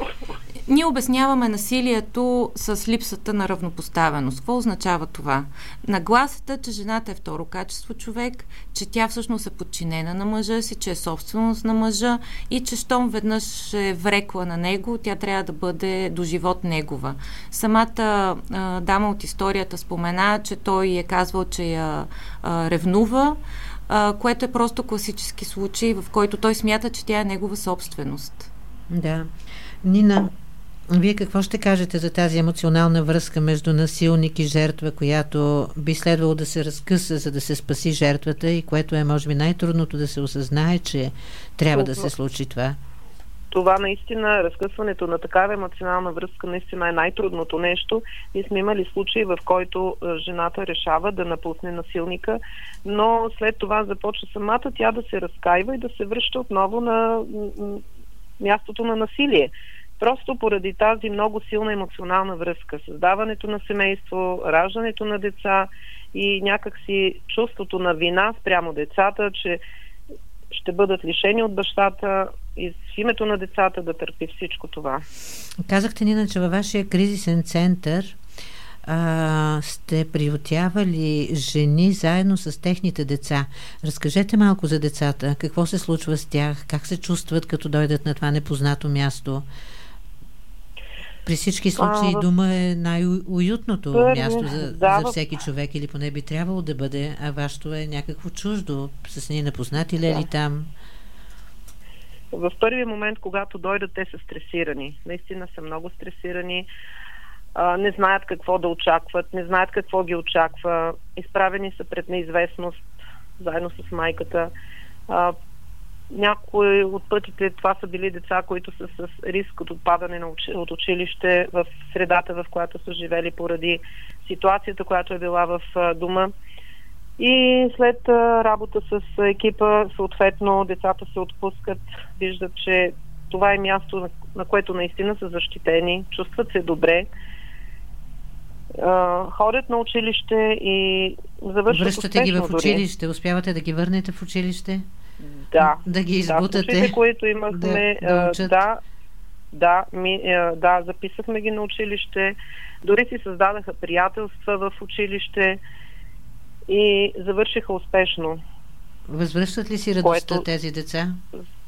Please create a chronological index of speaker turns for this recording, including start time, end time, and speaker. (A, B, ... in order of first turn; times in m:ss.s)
0:00.6-0:23.4 A
0:23.9-0:28.5 A
0:28.9-0:29.3 B
0:29.8-0:30.3 B
0:30.9-0:42.8 B
0:41.7-0:42.1 C
0:43.5-0:57.8 C
0:58.4-1:09.6 C
1:10.5-1:15.0 C
1:15.7-1:18.2 B
1:18.8-1:29.4 B
1:31.2-1:40.7 B
1:31.8-1:32.2 C
1:33.9-1:35.2 C
1:42.3-1:46.7 C
1:47.6-1:54.5 C
1:55.1-1:55.4 C
1:56.1-2:06.3 C
2:07.2-2:17.1 C
2:18.8-2:22.8 C
2:21.7-2:24.8 B
2:25.2-2:28.8 C
2:25.6-2:27.0 B
2:27.5-2:28.6 B
2:29.5-2:35.6 C
2:36.7-2:38.4 C
2:39.1-2:41.2 B
2:40.0-2:40.4 C